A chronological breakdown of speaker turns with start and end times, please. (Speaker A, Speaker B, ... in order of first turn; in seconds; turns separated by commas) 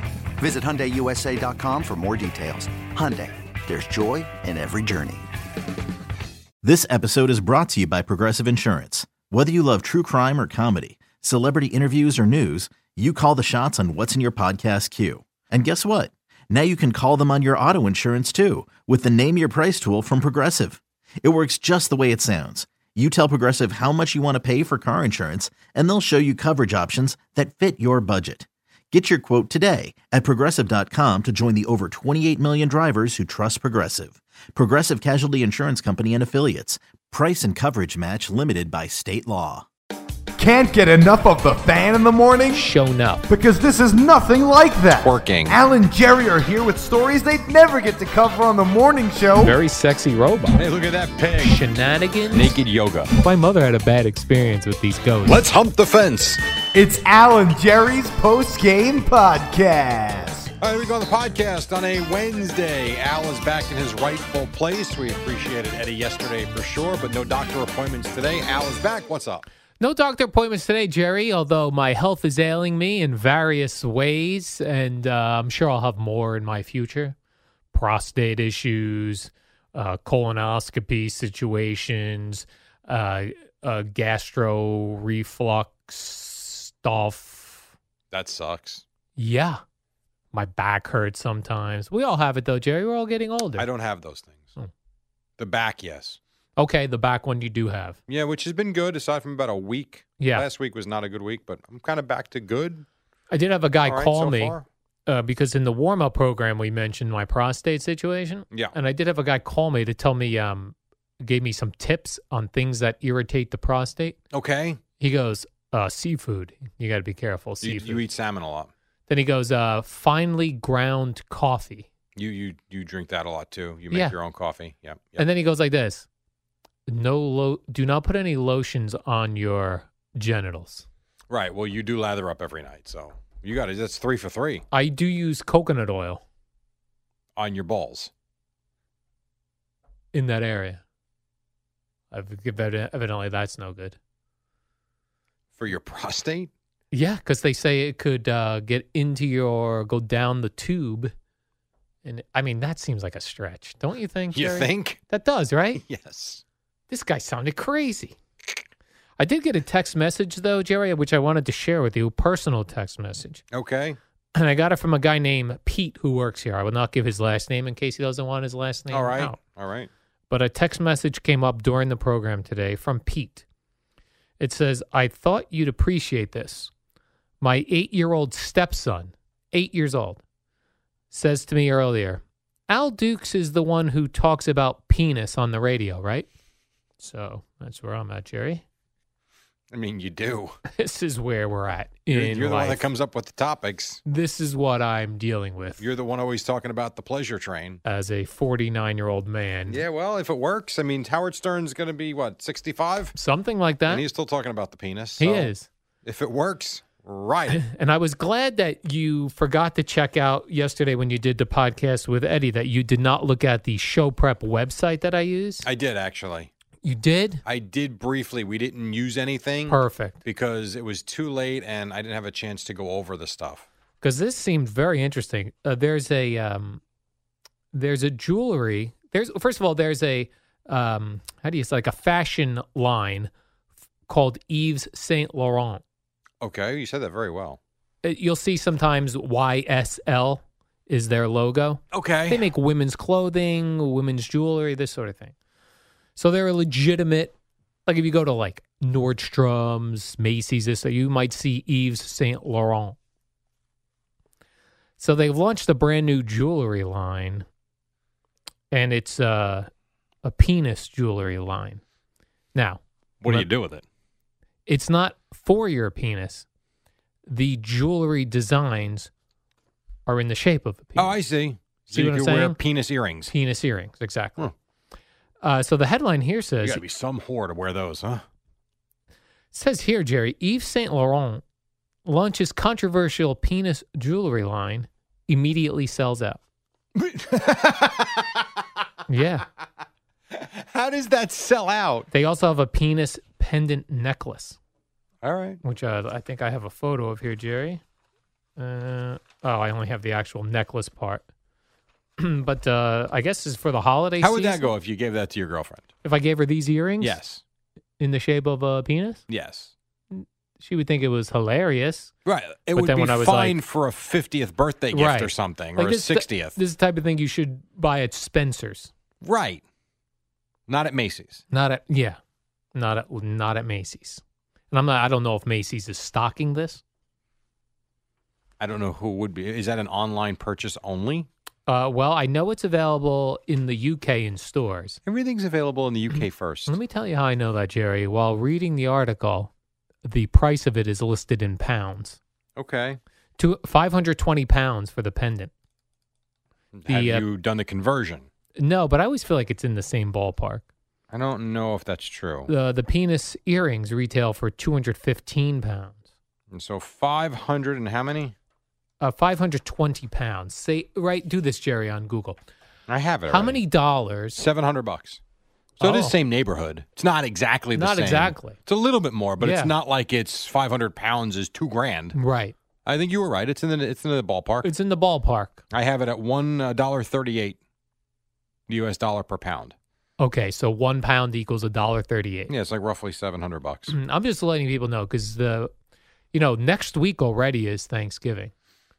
Speaker A: 0.4-5.3, Speaker B: 6.6-39.7, Speaker C: 40.4-42.6, Speaker D: 42.5-43.3, Speaker C: 43.3-49.5, Speaker E: 45.0-45.6, Speaker D: 49.4-50.6, Speaker E: 50.5-51.6, Speaker D: 51.4-52.5, Speaker E: 52.3-53.1, Speaker D: 53.2-55.4, Speaker E: 55.3-56.4, Speaker C: 56.8-60.4, Speaker E: 60.6-69.5, Speaker D: 69.8-77.2, Speaker D: 77.7-87.7, Speaker E: 88.1-88.8, Speaker D: 89.2-89.6, Speaker D: 90.3-93.7, Speaker E: 93.6-94.5, Speaker E: 95.4-96.2, Speaker D: 96.6-98.0, Speaker E: 98.1-102.9, Speaker D: 100.2-100.5, Speaker D: 103.3-114.2, Speaker E: 103.8-104.7, Speaker E: 114.3-114.8, Speaker D: 115.0-118.0, Speaker E: 117.6-118.7, Speaker D: 119.1-121.9, Speaker E: 122.2-125.2, Speaker D: 125.2-126.1, Speaker D: 126.9-130.9, Speaker E: 131.3-134.7, Speaker D: 134.7-136.2, Speaker E: 137.4-138.1, Speaker D: 140.1-140.8, Speaker D: 142.1-144.0, Speaker E: 145.6-146.5, Speaker D: 146.9-151.1, Speaker D: 152.0-155.8, Speaker E: 154.3-155.0, Speaker E: 155.8-156.4, Speaker D: 156.9-158.2, Speaker D: 159.2-163.4, Speaker E: 163.5-164.0, Speaker D: 164.3-169.4, Speaker E: 168.9-169.9, Speaker D: 170.3-173.4, Speaker D: 174.4-176.7, Speaker D: 177.4-180.2, Speaker D: 181.1-186.3, Speaker D: 187.0-188.6, Speaker E: 189.7-190.6, Speaker D: 190.7-192.9, Speaker E: 192.1-194.0, Speaker D: 194.1-195.8, Speaker E: 195.8-197.8, Speaker D: 197.8-199.8, Speaker E: 199.7-203.2, Speaker D: 203.2-204.1, Speaker E: 203.9-205.5, Speaker D: 205.2-205.7, Speaker E: 206.1-207.6, Speaker D: 207.5-215.7, Speaker E: 215.6-216.5, Speaker D: 216.8-217.4, Speaker E: 217.4-223.7, Speaker D: 219.7-220.2, Speaker D: 224.0-226.8, Speaker D: 227.7-233.3, Speaker D: 234.1-235.8, Speaker E: 236.4-237.6, Speaker D: 238.0-245.3, Speaker E: 241.9-242.5, Speaker D: 246.2-247.3, Speaker D: 247.9-253.0, Speaker D: 255.0-257.5, Speaker D: 258.7-259.7, Speaker D: 260.2-261.8, Speaker D: 262.5-263.5, Speaker E: 263.2-263.8, Speaker D: 264.7-266.5, Speaker D: 267.3-269.1, Speaker D: 270.1-271.1, Speaker E: 271.0-273.3, Speaker D: 271.9-272.6, Speaker D: 273.3-274.4, Speaker D: 275.4-276.8, Speaker E: 276.6-278.2, Speaker D: 279.5-281.4, Speaker D: 282.1-286.4, Speaker E: 286.9-288.4, Speaker D: 289.1-289.5, Speaker E: 290.3-292.1, Speaker D: 292.1-294.6, Speaker E: 295.2-295.6, Speaker D: 295.6-297.8, Speaker D: 298.6-301.2, Speaker D: 302.2-304.7, Speaker E: 304.2-305.9, Speaker D: 306.0-307.2, Speaker E: 307.0-307.4, Speaker D: 308.0-309.2, Speaker E: 309.3-309.7, Speaker D: 310.1-312.1, Speaker E: 312.2-316.6, Speaker D: 312.7-313.6, Speaker D: 314.9-318.9, Speaker E: 319.2-319.6, Speaker E: 320.7-321.4, Speaker D: 321.5-322.2, Speaker D: 322.7-326.8, Speaker E: 328.6-331.3, Speaker D: 331.7-335.0, Speaker E: 335.1-336.8, Speaker D: 336.7-339.5, Speaker D: 340.0-342.2, Speaker E: 342.6-343.0, Speaker D: 343.4-345.5, Speaker E: 346.8-348.3, Speaker D: 346.9-347.2, Speaker D: 348.6-350.6, Speaker E: 351.1-352.5, Speaker D: 352.5-356.0, Speaker E: 356.5-358.4, Speaker D: 359.0-362.4, Speaker E: 362.9-363.6, Speaker D: 363.3-364.4, Speaker E: 364.4-365.2, Speaker E: 365.8-372.2, Speaker D: 365.8-366.1, Speaker D: 367.8-368.6, Speaker D: 369.4-369.7, Speaker D: 372.1-372.6, Speaker E: 372.9-374.7, Speaker D: 374.6-375.6, Speaker E: 375.7-377.6, Speaker E: 378.7-379.8, Speaker D: 380.2-382.5, Speaker E: 382.5-383.9, Speaker D: 383.9-385.7, Speaker D: 386.3-388.5